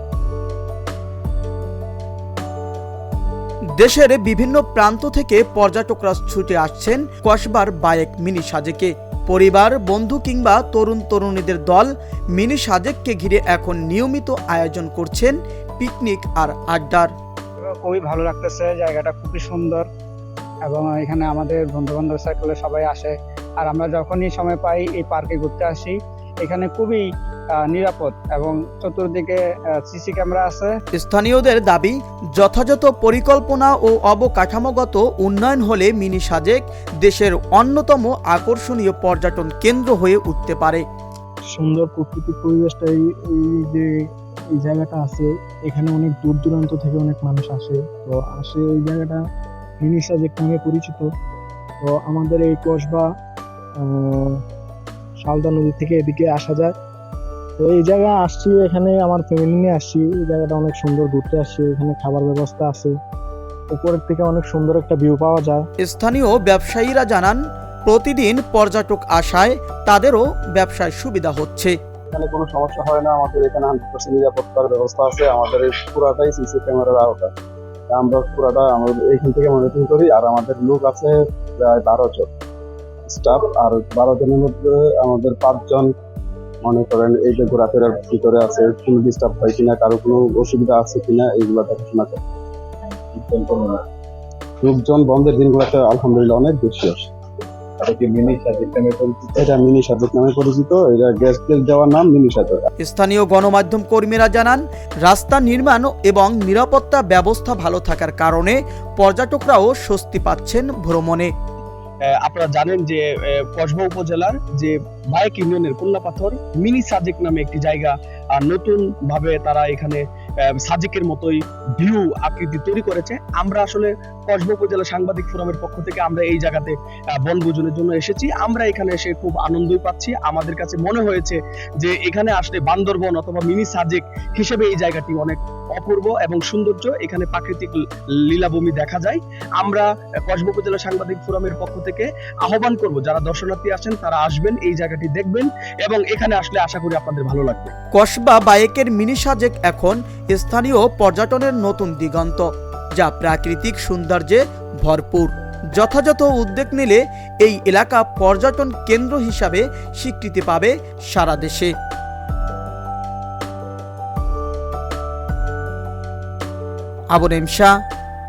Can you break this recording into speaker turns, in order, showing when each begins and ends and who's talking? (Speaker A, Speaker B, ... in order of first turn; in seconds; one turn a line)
Speaker A: 3.8-17.1
Speaker B: 17.7-19.9
Speaker B: 20.6-27.0
Speaker B: 27.6-30.7
Speaker A: 30.9-40.8
Speaker C: 41.6-43.8
Speaker C: 44.6-49.0
Speaker C: 50.0-51.0
Speaker C: 52.5-52.9
Speaker C: 55.6-56.5
Speaker C: 57.8-58.7
Speaker C: 59.3-60.5
Speaker C: 61.0-62.0
Speaker A: 65.8-71.7
Speaker D: 72.1-77.3
Speaker D: 77.9-82.3
Speaker D: 83.0-85.9
Speaker D: 86.6-92.2
Speaker D: 93.1-93.8
Speaker D: 94.6-97.0
Speaker D: 97.8-102.6
Speaker A: 102.8-111.3
Speaker E: 112.2-120.0
Speaker E: 120.6-146.9
Speaker D: 134.9-135.4
Speaker D: 146.6-147.7
Speaker A: 147.9-161.7
Speaker A: 167.1-167.8